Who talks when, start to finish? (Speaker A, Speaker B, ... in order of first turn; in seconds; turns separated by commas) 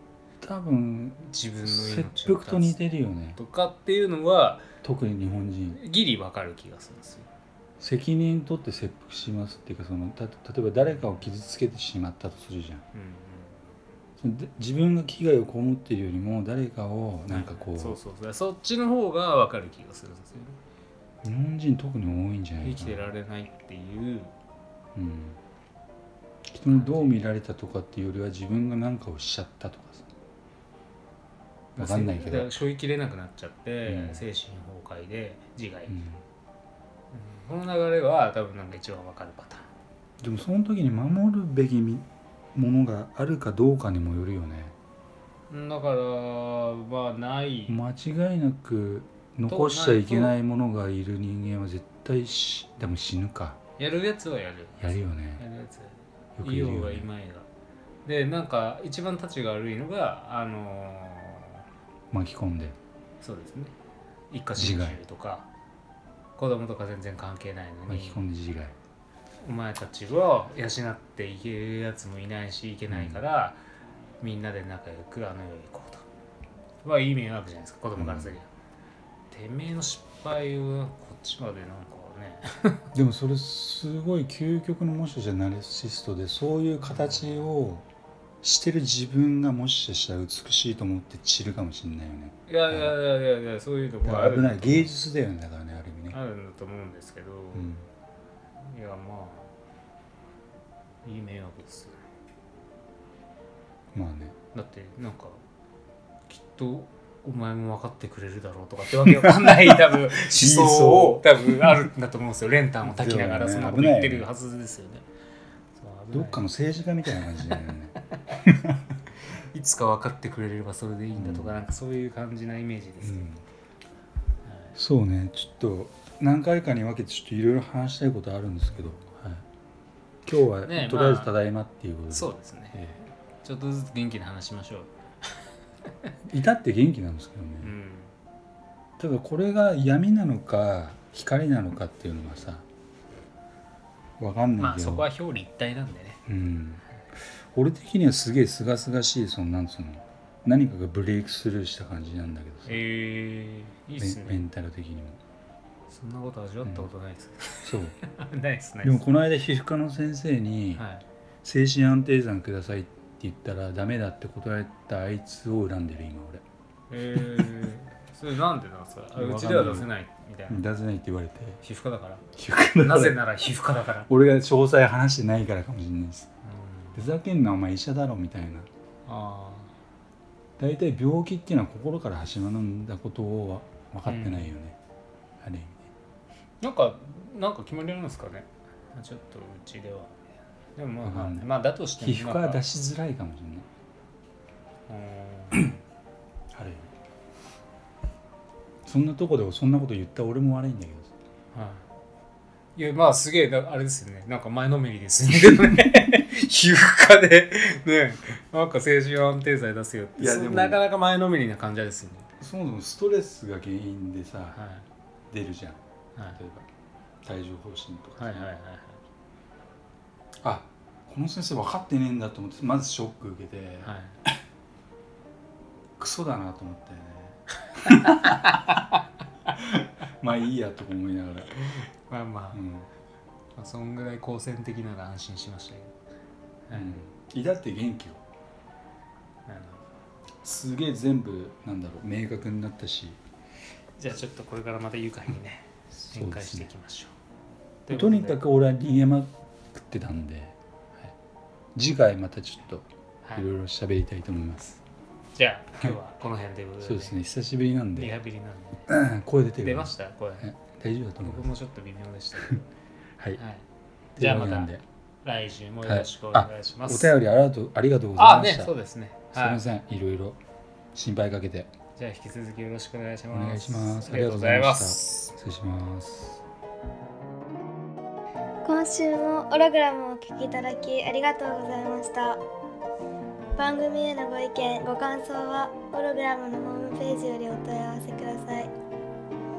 Speaker A: 0.4-3.4, Speaker B: 1.2-2.8, Speaker B: 3.4-4.7, Speaker A: 4.8-5.8, Speaker B: 5.7-7.3, Speaker A: 7.8-12.8, Speaker B: 10.8-11.3, Speaker B: 12.9-13.6, Speaker A: 14.2-18.0, Speaker B: 17.3-20.6, Speaker A: 21.2-23.1, Speaker B: 22.6-24.3, Speaker A: 24.9-25.4, Speaker A: 26.5-30.1, Speaker B: 26.7-27.3, Speaker B: 31.8-36.0, Speaker A: 31.8-32.6, Speaker A: 33.9-34.2, Speaker A: 35.9-36.2, Speaker B: 37.1-39.7, Speaker A: 40.2-44.8, Speaker B: 45.5-47.8, Speaker A: 47.7-53.6, Speaker B: 49.5-50.4, Speaker B: 53.8-57.5, Speaker A: 54.8-55.4, Speaker A: 56.4-57.1, Speaker B: 58.0-61.6, Speaker A: 62.1-62.8, Speaker B: 63.2-63.7, Speaker B: 64.3-65.5, Speaker A: 64.6-65.0, Speaker B: 66.4-68.2, Speaker A: 67.9-68.8, Speaker B: 69.4-73.6, Speaker A: 72.9-73.2, Speaker B: 74.2-76.1, Speaker B: 76.8-78.5, Speaker A: 78.0-78.4, Speaker B: 79.3-82.9, Speaker A: 82.9-87.8, Speaker B: 86.8-87.5, Speaker A: 88.4-93.0, Speaker B: 92.5-94.9, Speaker A: 94.0-96.2, Speaker B: 96.1-97.7, Speaker A: 97.5-97.9, Speaker B: 98.6-99.5, Speaker B: 101.0-102.0, Speaker A: 103.9-104.3, Speaker B: 104.5-105.4, Speaker B: 106.3-115.1, Speaker A: 109.1-111.9, Speaker A: 112.8-114.3, Speaker B: 115.8-116.4, Speaker A: 116.1-118.8, Speaker B: 119.3-123.3, Speaker A: 121.2-121.6, Speaker A: 123.0-123.4, Speaker B: 124.5-124.8, Speaker A: 124.8-129.4, Speaker A: 130.3-133.0, Speaker B: 130.7-131.3, Speaker B: 132.1-132.8, Speaker B: 133.4-134.9, Speaker A: 136.3-137.7, Speaker B: 137.6-138.1, Speaker A: 139.0-142.7, Speaker A: 144.2-145.1, Speaker B: 144.6-146.2, Speaker A: 146.3-152.8, Speaker B: 152.7-154.4, Speaker A: 154.0-155.2, Speaker B: 155.9-159.0, Speaker A: 156.6-156.9, Speaker A: 157.6-158.0, Speaker A: 158.8-160.8, Speaker B: 160.8-161.1, Speaker A: 161.4-166.4, Speaker B: 166.9-170.6, Speaker A: 169.2-169.9, Speaker A: 170.5-171.6, Speaker B: 171.6-172.2, Speaker A: 172.3-173.2, Speaker B: 172.8-174.1, Speaker A: 174.1-176.3, Speaker B: 176.5-177.0, Speaker A: 176.9-178.7, Speaker B: 179.1-179.7, Speaker A: 180.6-184.8, Speaker B: 184.1-184.5, Speaker A: 185.4-185.9, Speaker B: 186.6-190.2, Speaker B: 190.8-192.6, Speaker A: 191.1-193.7, Speaker B: 194.9-195.7, Speaker A: 196.5-196.9, Speaker A: 198.9-201.1, Speaker B: 201.5-201.8, Speaker B: 202.8-212.3, Speaker A: 210.2-210.8, Speaker A: 212.4-214.6, Speaker B: 214.5-214.9, Speaker A: 215.3-216.7, Speaker A: 217.2-218.5, Speaker B: 218.2-219.0, Speaker A: 220.4-224.3, Speaker B: 223.8-224.2, Speaker A: 226.0-228.6, Speaker B: 227.8-228.9, Speaker A: 229.5-231.5, Speaker B: 231.6-232.6, Speaker A: 232.5-232.9, Speaker B: 233.6-235.9, Speaker B: 236.7-237.0, Speaker A: 236.7-238.2, Speaker B: 239.5-239.8, Speaker A: 240.4-243.2, Speaker B: 244.0-247.1, Speaker A: 246.1-246.7, Speaker B: 247.9-248.4, Speaker A: 247.9-250.6, Speaker A: 251.8-254.8, Speaker B: 255.3-257.2, Speaker A: 256.8-258.1, Speaker B: 257.9-258.9, Speaker A: 258.9-261.5, Speaker B: 259.6-260.5, Speaker B: 261.2-262.7, Speaker B: 263.4-263.6, Speaker B: 264.2-264.7, Speaker A: 264.2-264.8, Speaker B: 265.2-267.1, Speaker A: 265.8-268.7, Speaker B: 268.2-269.6, Speaker A: 269.3-270.4, Speaker A: 270.9-271.7, Speaker B: 272.0-275.4, Speaker A: 273.3-276.4, Speaker C: 278.6-282.4, Speaker C: 283.6-288.7